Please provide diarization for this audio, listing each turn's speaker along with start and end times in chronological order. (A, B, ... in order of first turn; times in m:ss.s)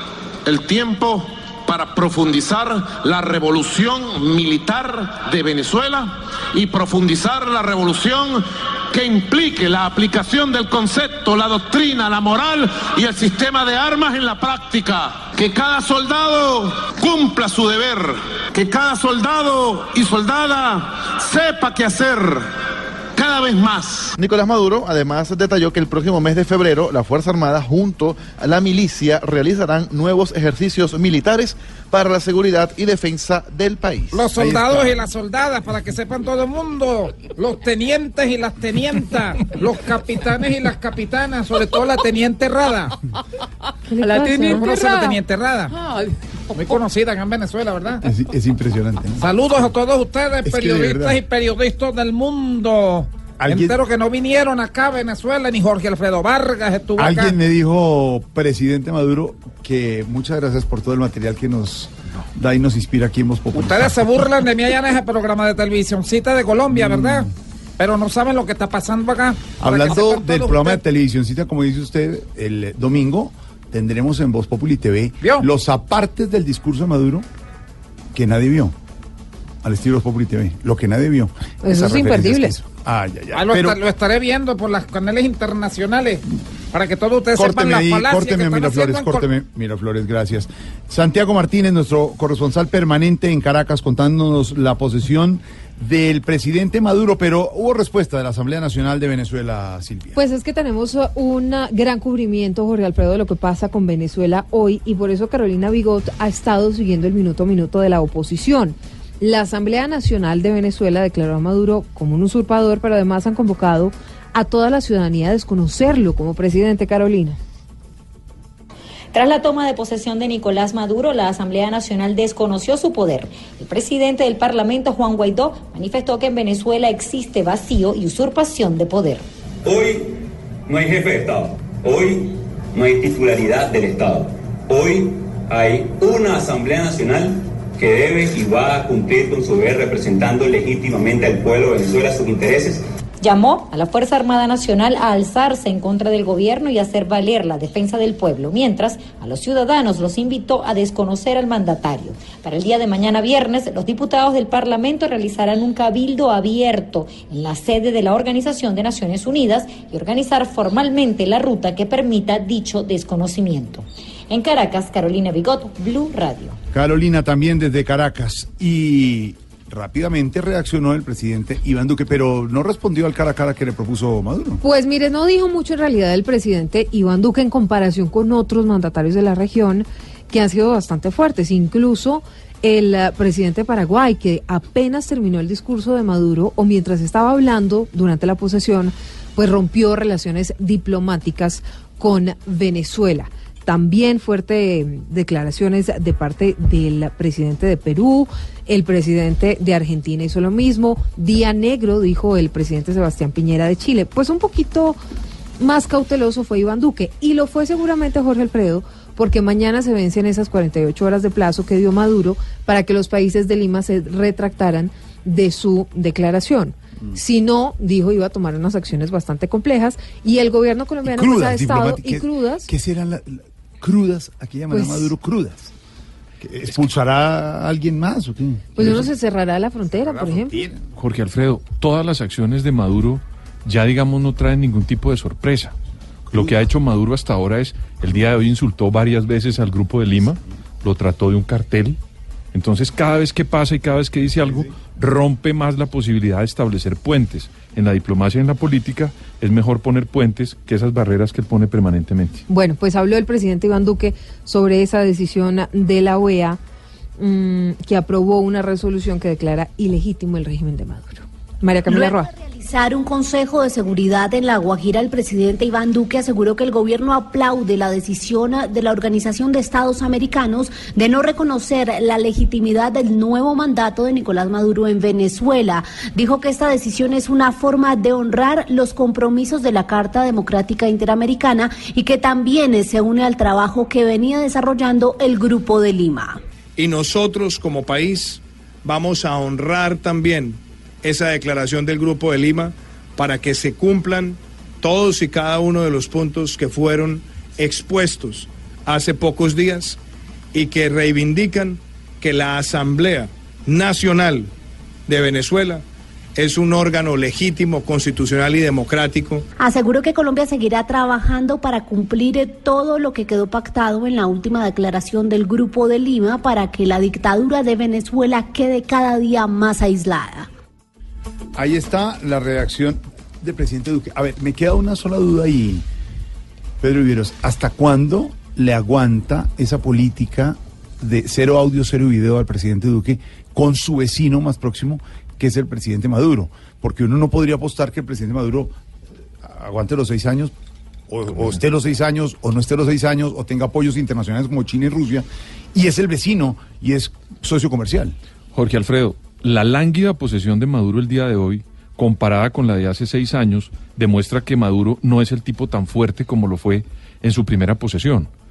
0:00.4-0:22.5 A
0:23.2-0:24.2 A
0:24.2-0:34.2 B
0:34.1-0:43.0 C
0:34.3-0:35.0 D
0:43.9-0:44.7 E
0:44.0-0:45.8 C
0:46.5-0:48.0 C
0:48.0-0:49.3 D
0:49.2-0:57.4 C
0:50.4-0:51.2 D
0:53.4-0:53.8 D
0:57.0-1:04.0 D
1:03.5-1:10.8 C
1:06.7-1:07.2 D
1:09.6-1:17.3 D
1:18.1-1:18.8 D
1:19.6-1:23.8 D
1:21.6-1:22.5 E
1:23.3-1:29.3 C
1:27.4-1:40.2 D
1:40.2-1:57.4 E
1:59.1-2:09.2 F
2:09.6-2:10.1 G
2:10.7-2:22.8 G
2:23.2-2:46.6 F
2:46.7-2:54.6 D
2:54.6-3:25.0 E
3:25.6-3:42.7 E
3:41.0-3:45.7 D
3:44.7-3:45.1 E
3:46.4-3:49.1 D
3:48.8-3:50.6 E
3:50.0-3:50.8 D
3:51.0-3:55.7 H
3:56.3-4:02.0 H
4:02.5-4:12.4 H
4:04.4-4:04.7 D
4:12.5-4:16.6 E
4:17.2-4:22.3 E
4:21.9-4:46.4 I
4:46.8-5:00.0 J
5:00.6-5:04.5 J
5:05.1-5:05.8 J
5:06.4-5:09.4 J
5:09.6-5:20.5 I
5:21.6-5:25.8 D
5:26.8-5:38.8 D
5:39.4-5:40.5 D
5:41.1-5:48.2 D
5:48.5-5:58.3 H